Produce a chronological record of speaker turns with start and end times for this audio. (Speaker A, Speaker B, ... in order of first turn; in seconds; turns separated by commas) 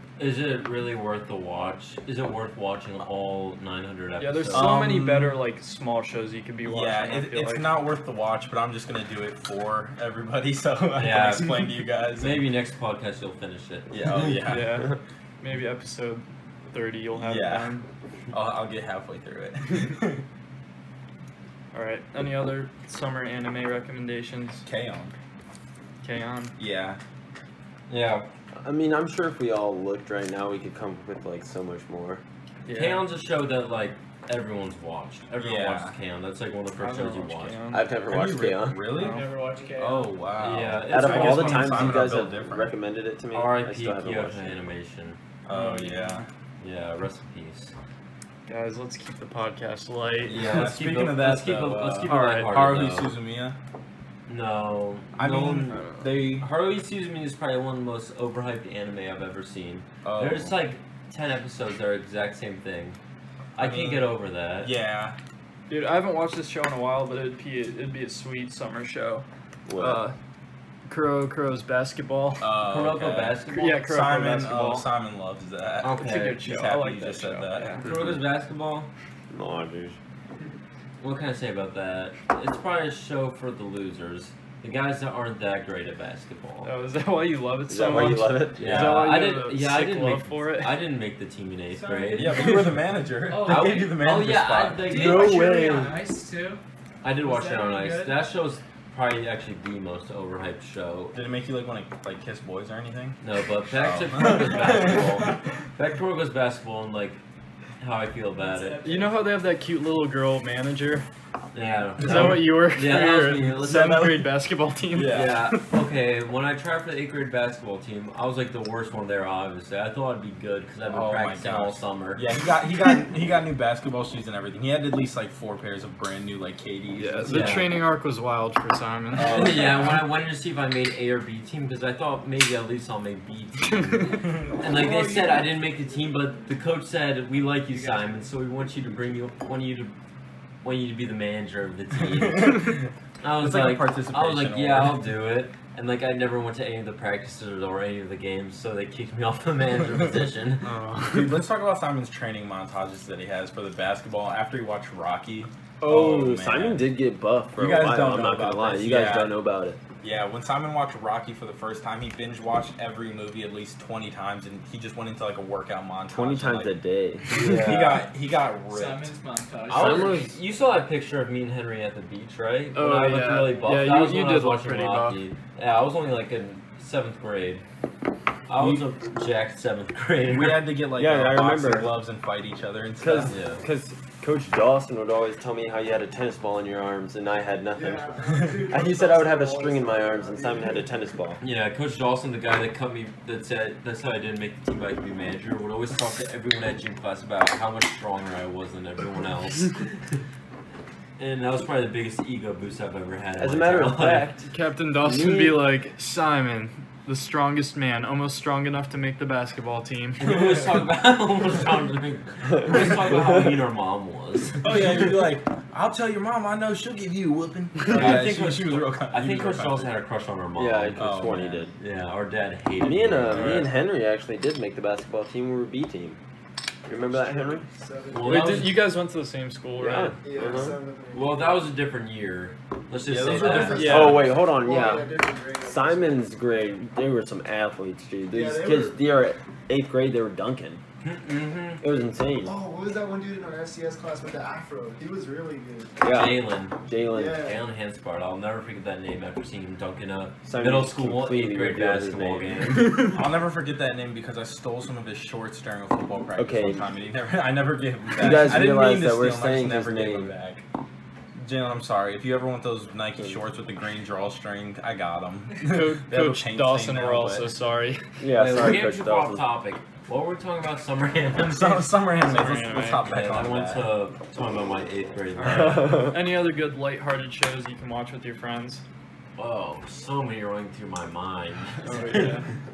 Speaker A: 0.2-4.8, Speaker B: 4.2-7.7, Speaker C: 4.5-5.4, Speaker C: 6.6-12.4, Speaker A: 11.0-14.3, Speaker C: 13.9-14.9, Speaker B: 14.4-17.9, Speaker C: 17.1-17.7, Speaker C: 18.3-20.2, Speaker B: 21.7-24.6, Speaker C: 24.6-25.1, Speaker B: 26.0-26.5, Speaker C: 26.6-27.0, Speaker A: 27.9-28.3, Speaker D: 28.6-32.2, Speaker B: 32.6-33.0, Speaker A: 32.7-37.6, Speaker C: 35.4-35.9, Speaker B: 36.8-37.9, Speaker D: 37.7-38.9, Speaker C: 38.0-39.2, Speaker B: 38.9-39.3, Speaker E: 38.9-40.1, Speaker C: 39.8-42.7, Speaker A: 40.4-42.2, Speaker D: 40.9-44.6, Speaker B: 41.0-41.6, Speaker A: 43.3-45.2, Speaker C: 45.5-46.2, Speaker B: 45.5-46.2, Speaker A: 46.6-47.7, Speaker B: 48.5-50.6, Speaker C: 50.2-53.6, Speaker A: 50.3-53.1, Speaker B: 52.0-52.7, Speaker A: 54.3-55.8, Speaker C: 55.1-56.5, Speaker B: 55.7-56.0, Speaker A: 56.4-63.0, Speaker C: 60.0-60.5, Speaker A: 63.5-64.7, Speaker C: 63.5-65.2, Speaker B: 65.7-69.2, Speaker D: 69.7-70.1, Speaker B: 69.8-70.1, Speaker B: 70.9-72.5, Speaker C: 72.4-78.1, Speaker A: 72.7-73.8, Speaker B: 73.5-74.9, Speaker A: 75.8-76.4, Speaker B: 75.9-77.8, Speaker A: 77.8-78.9, Speaker D: 79.3-80.0, Speaker A: 81.0-86.7, Speaker B: 86.6-90.8, Speaker D: 87.7-88.9, Speaker A: 88.6-92.7, Speaker E: 91.7-92.6, Speaker C: 92.1-95.4, Speaker E: 93.2-96.6, Speaker A: 93.5-95.8, Speaker A: 97.0-101.2, Speaker E: 97.2-98.2, Speaker C: 101.1-103.2, Speaker A: 103.2-107.2, Speaker C: 103.7-105.4, Speaker A: 107.8-108.8, Speaker E: 108.4-109.3, Speaker B: 108.8-111.0, Speaker A: 111.5-114.0, Speaker B: 112.0-115.6, Speaker C: 112.0-112.4, Speaker C: 113.7-114.3, Speaker C: 114.9-115.5, Speaker A: 115.1-122.2, Speaker C: 120.9-127.7, Speaker B: 126.9-129.7, Speaker A: 127.3-127.7, Speaker C: 129.1-130.0, Speaker A: 129.2-139.9, Speaker B: 133.6-134.3, Speaker C: 134.2-134.6, Speaker F: 134.6-136.6, Speaker E: 137.7-138.3, Speaker A: 140.6-150.7, Speaker C: 142.0-145.1, Speaker B: 150.6-151.4, Speaker C: 151.0-156.9, Speaker D: 155.8-159.8, Speaker C: 157.5-159.4, Speaker C: 160.0-166.8, Speaker D: 166.1-168.0, Speaker C: 167.3-169.1, Speaker A: 167.3-168.0, Speaker E: 168.7-170.3, Speaker A: 169.7-177.6, Speaker B: 172.7-175.2, Speaker A: 178.5-180.8, Speaker C: 178.6-178.9, Speaker C: 180.2-183.3, Speaker D: 180.9-181.9, Speaker D: 183.0-191.4, Speaker A: 183.3-183.6, Speaker F: 187.7-191.1, Speaker A: 191.4-200.1, Speaker A: 201.2-204.3, Speaker D: 203.4-205.7, Speaker B: 204.5-210.3, Speaker A: 210.2-215.0, Speaker D: 212.6-213.5, Speaker C: 214.6-219.9, Speaker A: 217.9-223.7, Speaker D: 220.5-221.7, Speaker C: 221.0-221.6, Speaker D: 222.8-226.2, Speaker D: 226.8-227.7, Speaker F: 226.9-228.8, Speaker A: 228.1-228.8, Speaker B: 228.2-230.2, Speaker D: 229.8-230.8, Speaker F: 230.2-231.6, Speaker A: 231.1-234.2, Speaker C: 233.0-234.1, Speaker F: 233.4-236.3, Speaker B: 233.4-234.3, Speaker D: 233.6-240.8, Speaker F: 238.3-239.0, Speaker A: 241.0-241.9, Speaker D: 241.8-242.5, Speaker F: 242.4-246.3, Speaker D: 246.0-247.4, Speaker A: 246.1-246.8, Speaker F: 247.1-247.6, Speaker A: 247.4-253.0, Speaker D: 250.4-252.8, Speaker B: 252.8-253.1, Speaker C: 253.0-260.6, Speaker D: 256.4-256.9, Speaker D: 258.1-260.3, Speaker C: 261.4-267.5, Speaker B: 265.6-268.1, Speaker D: 268.2-269.4, Speaker A: 268.3-271.8, Speaker C: 271.4-273.9, Speaker B: 272.0-273.1, Speaker A: 273.0-276.1, Speaker B: 275.4-278.8, Speaker D: 275.4-276.2, Speaker A: 279.4-282.4, Speaker B: 281.8-282.5